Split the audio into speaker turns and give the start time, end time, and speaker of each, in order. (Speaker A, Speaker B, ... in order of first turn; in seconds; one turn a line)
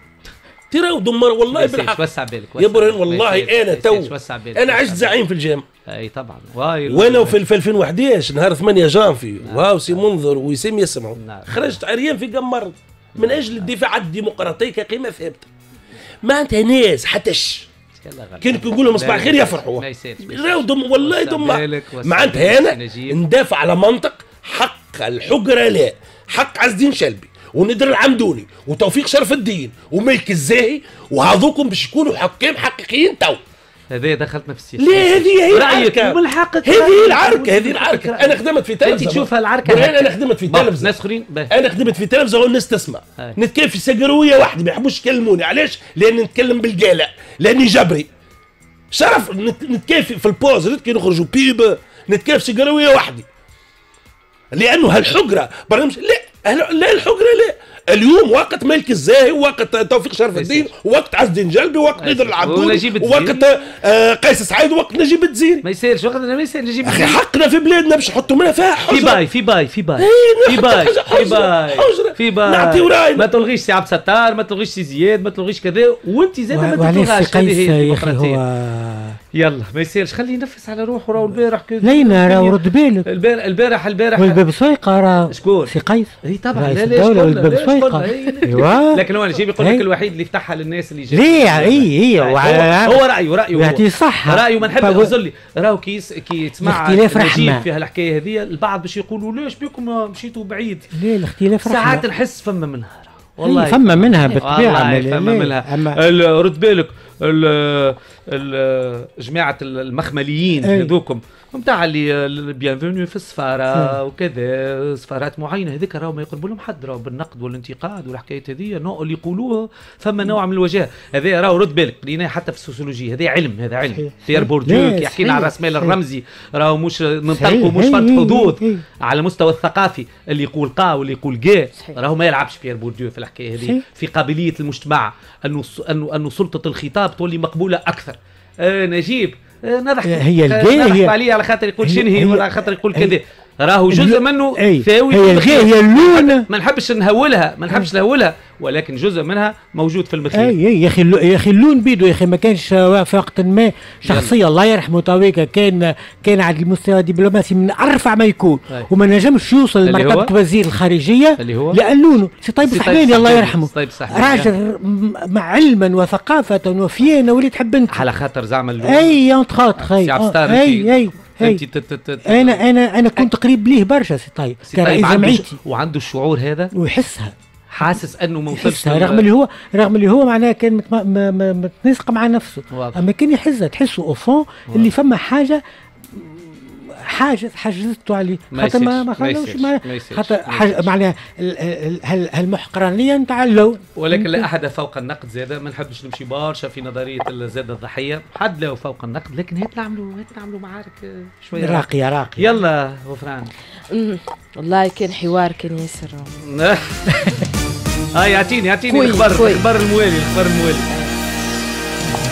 Speaker A: 0.7-2.0
Speaker B: 1.5-5.2
Speaker A: 2.6-5.7
Speaker B: 5.9-7.4
Speaker A: 6.9-15.5
Speaker B: 9.4-10.0
Speaker B: 11.2-11.8
Speaker B: 13.2-13.7
Speaker A: 16.2-17.7
Speaker B: 18.0-23.2
Speaker A: 18.4-33.4
Speaker B: 33.9-41.5
Speaker A: 34.8-40.9
Speaker A: 41.5-48.1
Speaker A: 48.9-53.3
Speaker A: 54.5-65.7
Speaker B: 60.4-60.7
Speaker B: 62.0-63.5
Speaker B: 65.6-67.2
Speaker A: 66.8-69.2
Speaker B: 68.9-78.4
Speaker A: 70.0-73.3
Speaker C: 76.5-79.2
Speaker B: 79.4-84.4
Speaker C: 81.8-83.1
Speaker C: 84.2-89.0
Speaker B: 85.3-101.0
Speaker C: 89.6-89.8
Speaker C: 91.1-95.1
Speaker C: 96.6-97.7
Speaker C: 101.0-102.0
Speaker B: 101.6-150.6
Speaker C: 103.4-106.0
Speaker C: 110.6-110.9
Speaker C: 123.9-126.0
Speaker C: 127.3-128.8
Speaker C: 133.6-133.8
Speaker C: 140.1-141.2
Speaker C: 141.8-143.2
Speaker C: 143.9-146.5
Speaker C: 150.3-168.1
Speaker B: 154.1-154.3
Speaker B: 159.8-160.3
Speaker B: 161.4-161.8
Speaker B: 162.6-164.5
Speaker B: 167.9-169.2
Speaker C: 168.8-171.6
Speaker B: 169.8-172.6
Speaker C: 172.3-175.6
Speaker B: 174.6-176.7
Speaker C: 176.8-178.0
Speaker B: 177.7-179.3
Speaker C: 178.5-185.6
Speaker B: 182.7-183.0
Speaker C: 186.1-194.5
Speaker B: 188.5-190.9
Speaker B: 194.0-203.5
Speaker C: 201.6-202.4
Speaker D: 203.9-206.3
Speaker B: 206.4-207.4
Speaker B: 208.2-210.9
Speaker D: 208.9-209.6